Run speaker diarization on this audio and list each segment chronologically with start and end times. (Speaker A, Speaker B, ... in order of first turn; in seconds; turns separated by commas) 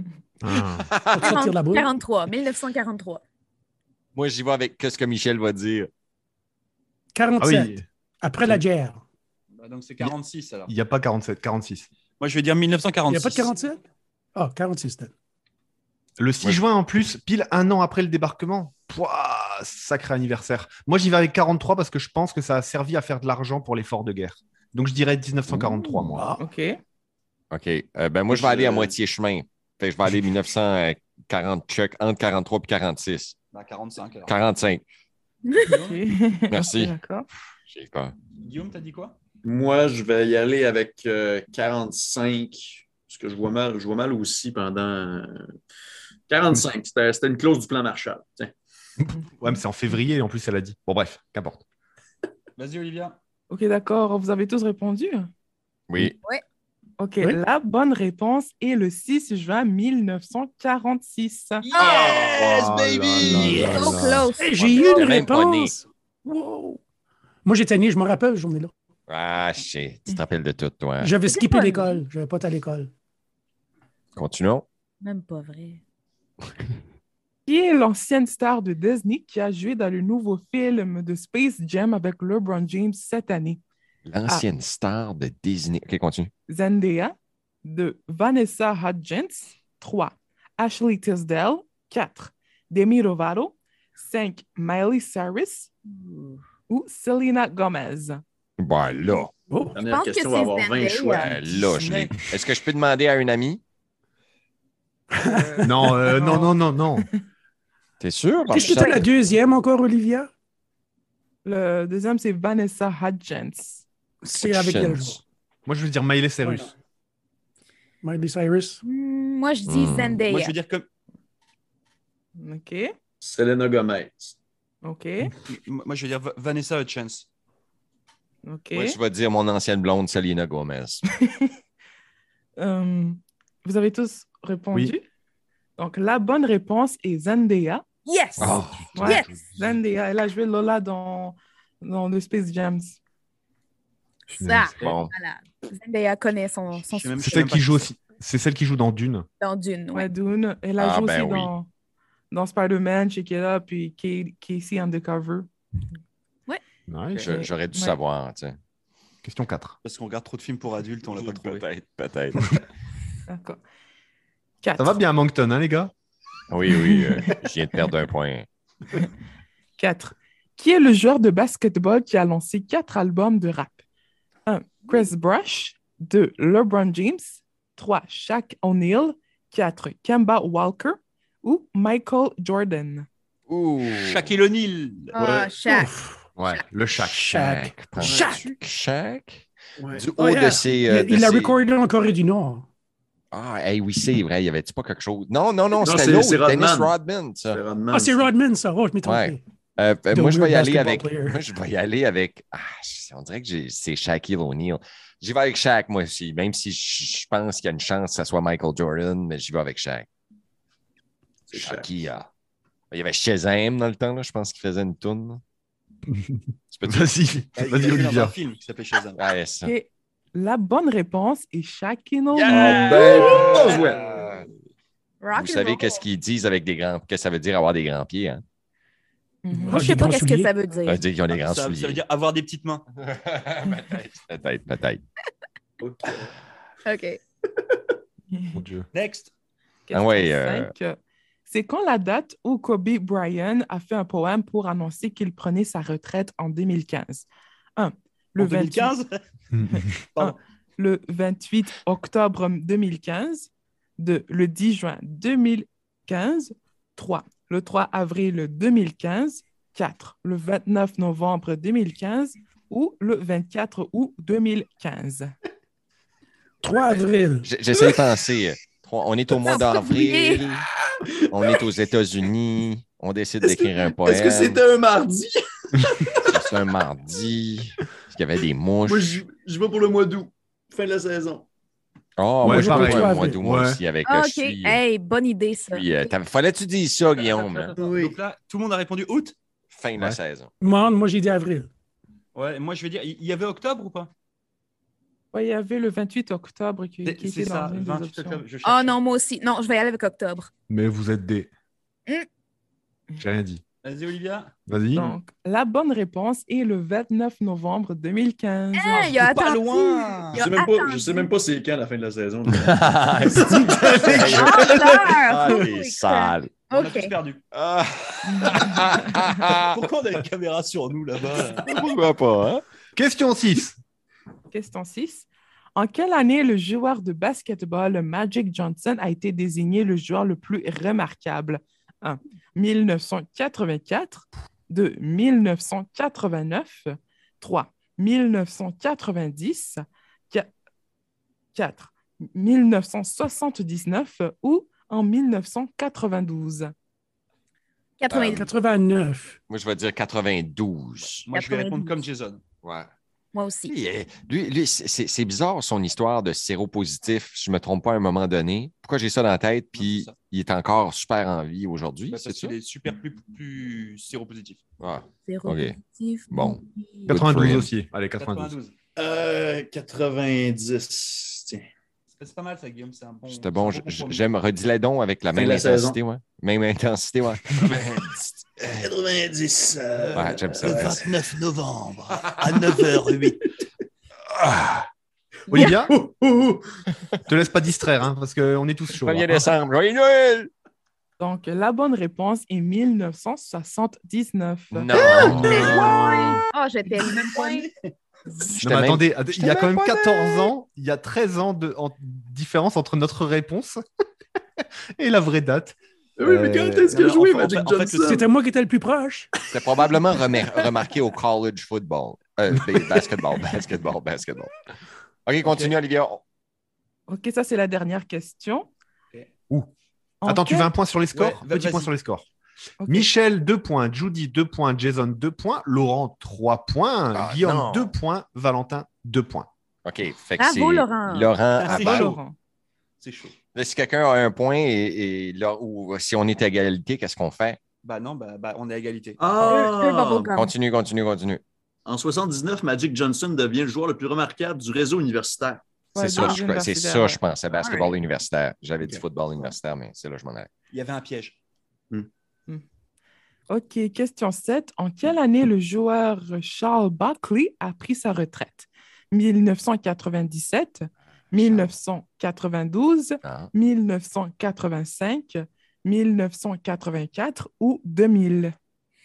Speaker A: 0.4-0.9, Speaker B: 0.9-1.3, Speaker C: 1.1-2.0, Speaker D: 1.2-3.2, Speaker B: 4.1-5.9, Speaker C: 7.1-9.0, Speaker A: 7.4-7.8, Speaker E: 9.5-10.7, Speaker A: 10.7-11.8, Speaker E: 12.2-13.5, Speaker C: 13.1-13.8, Speaker C: 14.3-15.1, Speaker A: 16.2-26.4, Speaker F: 26.4-26.8, Speaker B: 27.5-33.3, Speaker E: 28.3-29.0, Speaker E: 33.5-34.4, Speaker B: 34.3-34.8, Speaker E: 35.6-36.0, Speaker F: 35.8-37.3, Speaker B: 36.5-36.9, Speaker B: 37.7-38.1, Speaker E: 38.4-39.2, Speaker G: 39.4-45.4, Speaker G: 46.3-48.5, Speaker A: 49.0-51.6, Speaker F: 49.1-49.6, Speaker E: 52.6-53.2, Speaker F: 53.5-55.3, Speaker B: 55.9-56.2, Speaker F: 57.0-61.7, Speaker E: 61.6-64.0, Speaker D: 61.8-62.3, Speaker G: 61.8-62.1, Speaker A: 62.4-64.3, Speaker B: 63.2-63.6, Speaker D: 63.6-64.9, Speaker C: 64.3-66.8, Speaker B: 64.5-65.7, Speaker C: 67.4-68.7, Speaker B: 69.1-71.2, Speaker C: 71.0-72.9, Speaker D: 71.2-72.0, Speaker B: 74.1-74.7, Speaker D: 75.0-75.8, Speaker F: 77.5-83.6, Speaker B: 84.0-86.3, Speaker F: 86.5-95.7, Speaker D: 95.9-96.4, Speaker F: 96.7-98.2, Speaker B: 98.6-99.3, Speaker C: 99.5-99.8, Speaker G: 99.7-101.3, Speaker D: 99.8-101.3, Speaker B: 101.2-103.6, Speaker E: 101.3-102.2, Speaker C: 105.1-105.7, Speaker F: 105.2-107.2, Speaker A: 105.6-107.1, Speaker B: 108.0-109.1, Speaker C: 108.5-110.3, Speaker F: 108.5-109.0, Speaker F: 111.4-113.8, Speaker C: 114.2-115.2, Speaker B: 114.2-115.2, Speaker A: 115.7-116.7, Speaker C: 116.4-116.7, Speaker C: 118.0-118.8, Speaker D: 118.8-120.5, Speaker B: 119.7-120.2, Speaker E: 120.2-120.8, Speaker F: 122.3-122.9, Speaker G: 123.2-124.3, Speaker F: 124.8-125.3, Speaker E: 125.5-127.3, Speaker F: 128.4-129.0, Speaker B: 128.7-131.0, Speaker F: 131.2-131.5, Speaker F: 132.6-135.0, Speaker F: 135.8-137.8, Speaker D: 138.1-139.3, Speaker B: 138.4-138.9, Speaker A: 138.4-139.8, Speaker F: 138.9-143.0, Speaker D: 144.3-147.2, Speaker A: 144.3-144.7, Speaker B: 144.8-145.1, Speaker E: 146.9-147.9, Speaker A: 147.2-149.3, Speaker D: 149.4-150.1, Speaker F: 149.9-151.7, Speaker B: 150.8-151.5, Speaker F: 152.3-155.5, Speaker A: 156.9-157.2, Speaker B: 157.2-158.6, Speaker F: 157.2-158.0, Speaker A: 159.2-159.8, Speaker E: 159.8-161.7, Speaker B: 161.1-162.6, Speaker F: 163.3-163.6, Speaker F: 164.6-165.0, Speaker A: 164.8-165.9, Speaker B: 166.5-168.5, Speaker F: 166.7-167.3, Speaker F: 169.8-173.8, Speaker F: 174.4-183.1, Speaker B: 183.5-184.3, Speaker E: 183.8-185.2, Speaker D: 185.1-185.9, Speaker G: 185.2-185.6, Speaker C: 185.6-186.3, Speaker A: 186.4-187.2, Speaker B: 187.0-191.6, Speaker C: 187.0-188.5, Speaker G: 188.0-188.3, Speaker G: 189.8-190.1, Speaker C: 190.2-192.7, Speaker B: 193.3-197.6, Speaker G: 195.8-196.9, Speaker G: 197.5-198.2, Speaker C: 197.9-199.4, Speaker B: 199.0-210.1, Speaker C: 200.1-201.4, Speaker G: 211.5-211.9, Speaker B: 211.5-212.3, Speaker B: 212.9-215.4, Speaker A: 216.1-218.3, Speaker B: 216.7-217.1, Speaker E: 217.6-219.3, Speaker B: 219.2-219.7, Speaker F: 219.6-223.3, Speaker B: 222.3-224.4, Speaker G: 222.5-224.1, Speaker E: 222.5-223.7, Speaker D: 225.2-226.0, Speaker B: 225.3-228.4, Speaker F: 229.4-229.9, Speaker C: 229.5-230.6, Speaker D: 229.8-231.0, Speaker B: 230.8-232.0, Speaker E: 231.3-232.8, Speaker B: 232.9-235.0, Speaker G: 235.8-236.3, Speaker D: 236.8-237.2, Speaker F: 238.3-238.6, Speaker A: 238.5-238.9, Speaker E: 238.9-239.3, Speaker F: 239.9-240.9, Speaker B: 239.9-240.7, Speaker F: 241.5-248.9, Speaker E: 248.4-249.2, Speaker A: 249.5-249.8, Speaker F: 249.7-265.3, Speaker C: 266.6-267.5, Speaker B: 267.4-270.6, Speaker D: 269.4-270.4, Speaker B: 271.3-274.6, Speaker G: 273.4-276.4, Speaker B: 276.3-279.1, Speaker G: 278.8-281.4, Speaker B: 282.2-284.8, Speaker A: 282.4-283.8, Speaker C: 282.4-283.4, Speaker D: 284.0-286.1, Speaker B: 285.7-287.7, Speaker E: 287.1-289.3, Speaker G: 287.8-288.2, Speaker B: 289.7-290.5, Speaker C: 290.6-291.7, Speaker E: 292.3-294.1, Speaker F: 295.3-298.4, Speaker E: 297.0-299.0, Speaker D: 298.6-300.5, Speaker A: 300.7-301.5, Speaker A: 303.2-303.6, Speaker E: 303.8-304.5, Speaker A: 304.7-305.2, Speaker F: 304.9-309.1, Speaker D: 308.7-311.3, Speaker E: 308.9-310.5, Speaker G: 310.3-315.7, Speaker B: 312.7-316.6, Speaker A: 313.8-314.4, Speaker D: 314.4-317.1, Speaker E: 316.7-317.4, Speaker B: 317.5-319.8, Speaker F: 318.3-318.9, Speaker E: 319.7-321.6, Speaker B: 321.6-322.6, Speaker A: 322.9-323.8, Speaker F: 324.5-340.5, Speaker F: 341.5-346.7, Speaker D: 348.0-348.5, Speaker B: 348.1-348.5, Speaker C: 348.3-349.4, Speaker B: 349.5-351.3, Speaker E: 351.2-352.4, Speaker D: 351.3-352.0, Speaker B: 352.6-352.9, Speaker D: 353.3-353.7, Speaker B: 353.6-362.5, Speaker E: 359.7-360.1, Speaker E: 362.1-364.6, Speaker B: 364.8-365.8, Speaker D: 365.2-367.1, Speaker B: 366.3-367.7, Speaker A: 367.1-368.5, Speaker E: 368.1-368.7, Speaker G: 368.9-371.6, Speaker E: 372.1-374.2, Speaker B: 373.3-378.8, Speaker G: 375.3-376.0, Speaker G: 378.6-381.0, Speaker E: 379.9-383.5, Speaker B: 380.1-380.8, Speaker B: 384.3-384.8, Speaker D: 385.5-385.8, Speaker G: 385.5-386.6, Speaker A: 385.5-385.9, Speaker A: 387.3-389.5, Speaker B: 388.9-390.5, Speaker F: 391.2-394.9, Speaker B: 394.7-395.9, Speaker D: 395.0-397.7, Speaker G: 395.0-396.3, Speaker E: 395.5-396.0, Speaker E: 396.9-397.9, Speaker B: 398.5-400.5, Speaker A: 398.6-403.8, Speaker A: 405.0-406.9, Speaker G: 406.2-408.3, Speaker E: 406.9-408.2, Speaker C: 408.0-409.3, Speaker B: 409.5-414.5, Speaker A: 412.5-412.8, Speaker B: 415.2-416.2, Speaker E: 415.4-415.7, Speaker F: 417.1-418.7, Speaker F: 420.2-420.7, Speaker A: 420.2-422.2, Speaker E: 421.1-421.9, Speaker F: 422.8-423.1, Speaker A: 422.9-429.5, Speaker B: 427.1-427.9, Speaker B: 429.8-432.2, Speaker D: 430.4-431.4, Speaker E: 431.6-432.2, Speaker F: 431.7-432.4, Speaker E: 433.0-433.4, Speaker B: 433.5-437.6, Speaker E: 437.8-439.3, Speaker G: 439.2-440.4, Speaker D: 439.4-440.5, Speaker B: 440.2-441.4, Speaker G: 441.9-445.6, Speaker F: 445.9-447.2, Speaker B: 445.9-450.5, Speaker D: 447.6-447.9, Speaker E: 450.7-451.4, Speaker F: 453.5-468.5, Speaker B: 461.3-461.7, Speaker B: 463.2-463.5